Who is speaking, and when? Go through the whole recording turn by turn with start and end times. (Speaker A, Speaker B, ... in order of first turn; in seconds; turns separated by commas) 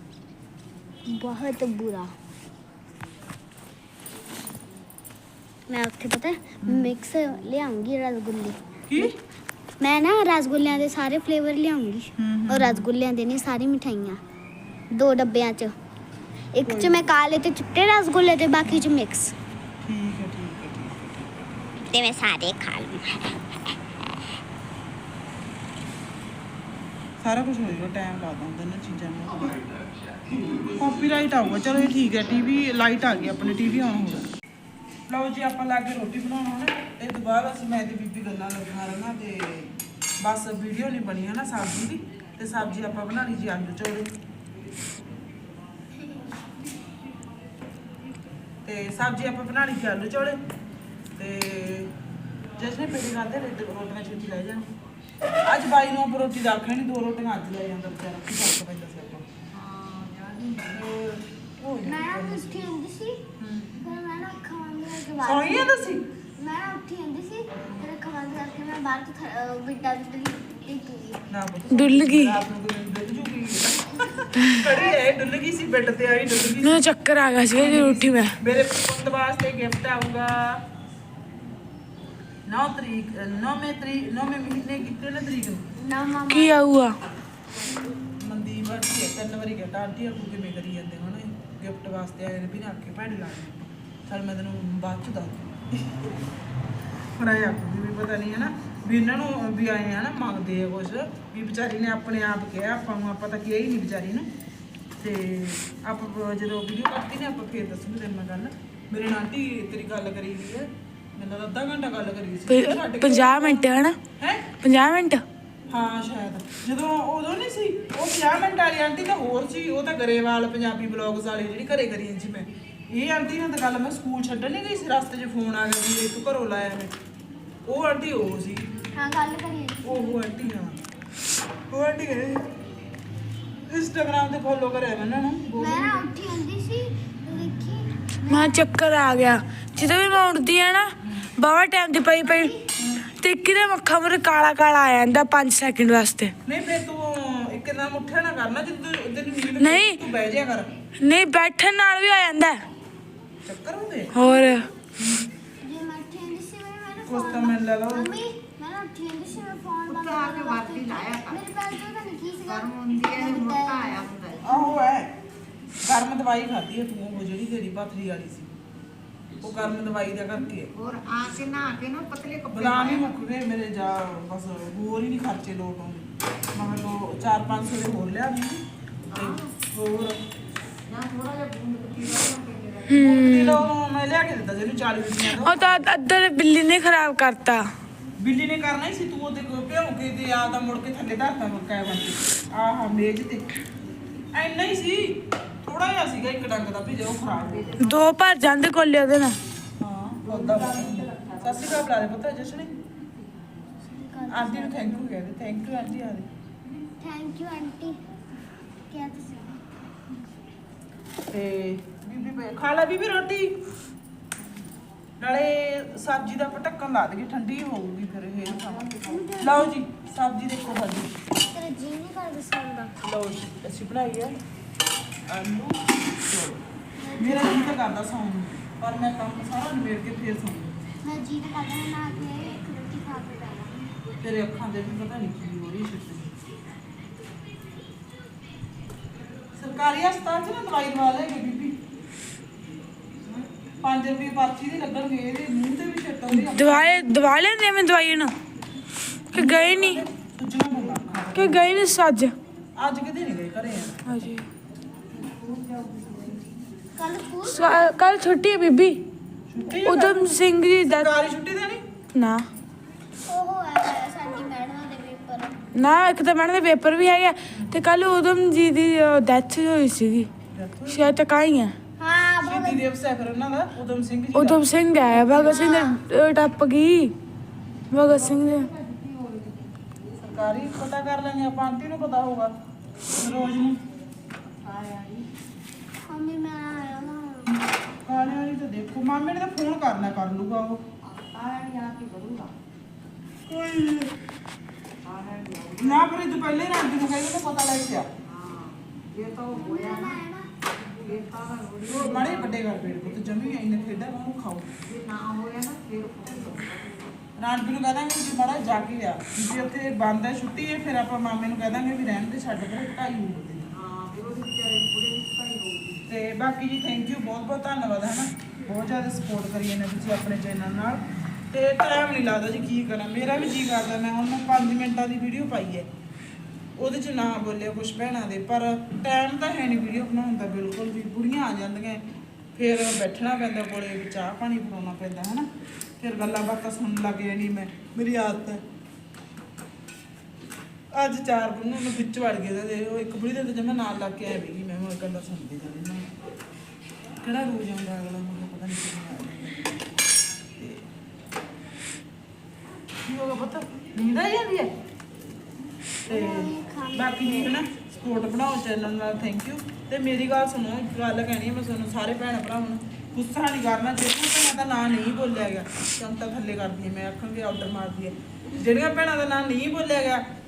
Speaker A: 1.1-2.1, Speaker A: 5.7-9.1, Speaker B: 6.6-6.9, Speaker B: 8.9-9.1, Speaker A: 9.8-14.2, Speaker B: 12.2-12.9, Speaker A: 14.9-15.7, Speaker A: 16.5-19.3, Speaker B: 16.6-17.1, Speaker B: 19.8-21.0, Speaker A: 21.8-23.4, Speaker B: 27.2-29.6, Speaker B: 30.8-34.3, Speaker B: 35.1-44.1, Speaker B: 48.6-50.4, Speaker B: 51.2-51.9, Speaker B: 52.6-54.7, Speaker B: 55.4-59.3, Speaker C: 59.5-60.8, Speaker B: 60.7-62.7, Speaker A: 61.8-63.2, Speaker B: 63.4-63.8, Speaker A: 63.8-71.2, Speaker B: 65.2-66.1, Speaker B: 71.3-76.9, Speaker D: 71.7-72.4, Speaker D: 74.4-74.6, Speaker A: 74.7-75.0, Speaker D: 76.6-78.3, Speaker B: 77.5-80.6, Speaker B: 82.5-85.7, Speaker A: 85.8-86.6, Speaker D: 86.3-87.0, Speaker B: 88.2-96.2, Speaker B: 97.2-104.3, Speaker B: 105.0-114.5, Speaker D: 112.5-114.0, Speaker D: 114.6-115.2, Speaker B: 115.7-126.9, Speaker B: 127.7-128.7, Speaker A: 129.0-130.2, Speaker B: 129.8-130.8, Speaker B: 131.7-132.5, Speaker B: 133.7-136.1, Speaker A: 135.5-138.7, Speaker D: 138.3-142.5, Speaker A: 142.2-142.6, Speaker B: 142.8-143.0, Speaker D: 143.1-146.3, Speaker B: 146.5-150.7, Speaker D: 149.6-150.0, Speaker D: 151.0-152.6, Speaker B: 153.4-154.2, Speaker D: 154.1-154.7, Speaker B: 155.0-155.3, Speaker A: 155.6-164.0, Speaker B: 157.1-158.1, Speaker C: 159.8-161.5, Speaker C: 162.4-164.4, Speaker B: 164.4-165.1, Speaker B: 165.8-168.5, Speaker B: 169.4-170.7, Speaker C: 170.7-173.1, Speaker B: 172.5-180.2, Speaker C: 179.1-179.5, Speaker C: 180.9-183.0, Speaker D: 182.9-183.7, Speaker B: 182.9-185.8, Speaker D: 185.2-187.7, Speaker B: 188.2-193.5, Speaker B: 194.3-197.8, Speaker C: 197.4-197.9, Speaker D: 197.8-199.4, Speaker B: 199.8-202.7, Speaker C: 200.3-201.8, Speaker A: 203.9-205.1, Speaker B: 204.3-206.3, Speaker A: 207.0-208.0, Speaker A: 208.9-209.6, Speaker B: 211.3-213.6, Speaker B: 215.2-221.2, Speaker C: 218.5-219.3, Speaker A: 219.1-219.7, Speaker A: 221.5-222.9, Speaker B: 223.0-224.4, Speaker B: 225.3-226.6, Speaker A: 227.0-227.8, Speaker B: 227.2-230.7, Speaker A: 231.0-233.9, Speaker B: 234.2-236.4, Speaker B: 239.5-241.8, Speaker B: 243.8-247.2, Speaker D: 246.3-248.3, Speaker D: 249.3-250.0, Speaker B: 249.3-251.8, Speaker D: 251.3-252.3, Speaker B: 252.8-254.3, Speaker D: 254.1-254.4, Speaker C: 255.2-256.4, Speaker A: 257.0-258.0, Speaker D: 257.4-259.0, Speaker B: 259.5-261.8, Speaker D: 259.8-261.1, Speaker D: 262.1-262.5, Speaker A: 263.3-265.6, Speaker D: 265.8-270.3, Speaker B: 267.5-267.8, Speaker B: 270.5-271.1, Speaker D: 270.9-271.8, Speaker A: 272.0-272.8, Speaker B: 272.4-275.7, Speaker D: 274.3-277.1, Speaker A: 275.3-276.0, Speaker D: 277.9-278.7, Speaker C: 278.1-279.9, Speaker B: 280.2-282.5, Speaker B: 283.1-283.8, Speaker C: 284.6-285.3, Speaker A: 286.1-287.6, Speaker B: 287.5-290.8, Speaker C: 291.1-292.5, Speaker B: 293.5-294.1, Speaker C: 295.0-296.1, Speaker B: 295.8-298.1, Speaker C: 298.2-300.2, Speaker A: 299.5-300.5, Speaker C: 300.8-302.8, Speaker B: 301.9-304.7, Speaker C: 304.8-307.0, Speaker B: 307.4-313.7, Speaker C: 313.7-316.0, Speaker B: 316.1-325.9, Speaker B: 326.8-332.0, Speaker B: 332.6-335.5, Speaker B: 336.0-338.6, Speaker B: 340.9-346.1, Speaker B: 347.2-349.6, Speaker B: 350.6-350.9, Speaker B: 353.1-354.7, Speaker A: 356.1-357.6, Speaker B: 356.1-370.3